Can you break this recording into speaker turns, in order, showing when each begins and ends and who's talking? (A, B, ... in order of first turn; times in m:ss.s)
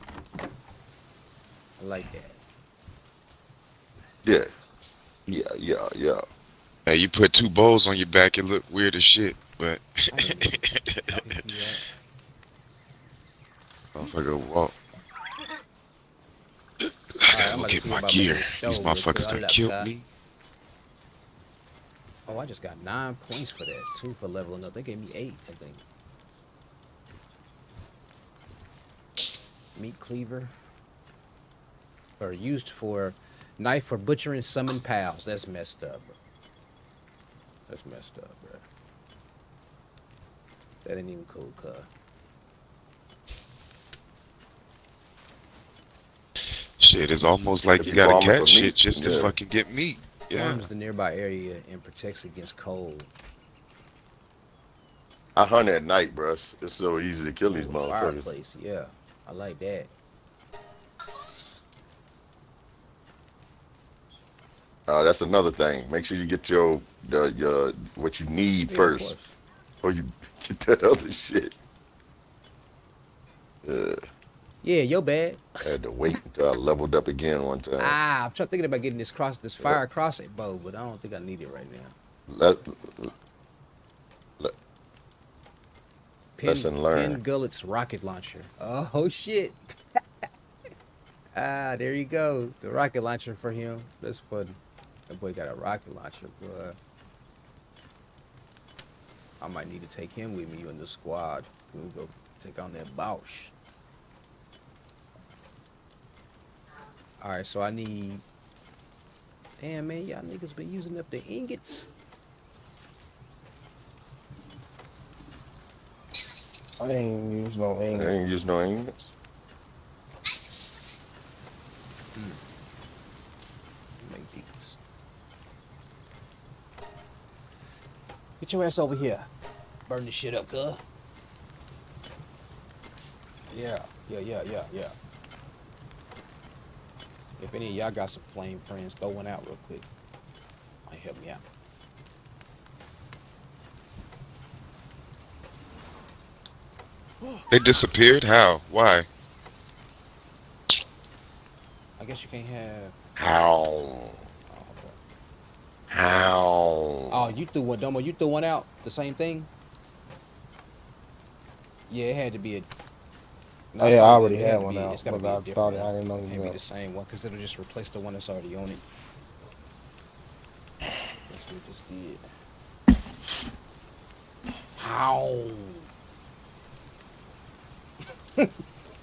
0:01.8-0:02.4 A
0:04.2-0:04.5 B
0:05.3-0:06.2 B
0:06.9-0:11.4 C
0:10.1-0:11.8 A
0:14.0-0:14.7 C
0:16.8-0:20.1 C
0:17.3-0:19.9 A
0:22.3-0:25.8 A
0:29.8-0:30.5 A
0:32.2-0:36.2 A
0:37.7-0:38.7 A
0:40.8-0:41.9 A
0:46.8-0:50.7 C
0:47.8-0:49.4 B
0:50.3-0:53.1 A
0:55.4-0:58.2 B
0:57.4-0:59.9 A
1:04.9-1:09.2 B
1:08.7-1:09.4 A
1:09.8-1:11.6 B
1:13.6-1:14.0 B
1:14.6-1:15.8 A
1:15.6-1:18.0 B
1:17.8-1:21.9 A
1:22.3-1:23.1 B
1:26.4-1:30.2 A
1:26.4-1:27.2 B
1:31.4-1:36.8 A
1:39.4-1:43.5 A
1:47.2-1:48.2 A
1:49.6-1:51.9 A
1:56.8-1:58.1 D
1:57.9-1:59.1 B
2:02.2-2:02.4 A
2:04.0-2:04.8 A
2:08.4-2:09.3 A
2:09.9-2:10.8 A
2:13.5-2:15.0 A
2:17.4-2:19.9 A
2:20.9-2:21.4 A
2:27.5-2:29.1 C
2:32.0-2:33.0 A
2:33.2-2:34.2 B
2:34.5-2:35.0 A
2:35.9-2:37.4 B
2:37.1-2:39.5 A
2:41.9-2:42.7 A
2:43.7-2:48.8 A
2:43.8-2:46.6 D
2:51.3-2:52.2 A
2:54.8-2:55.9 A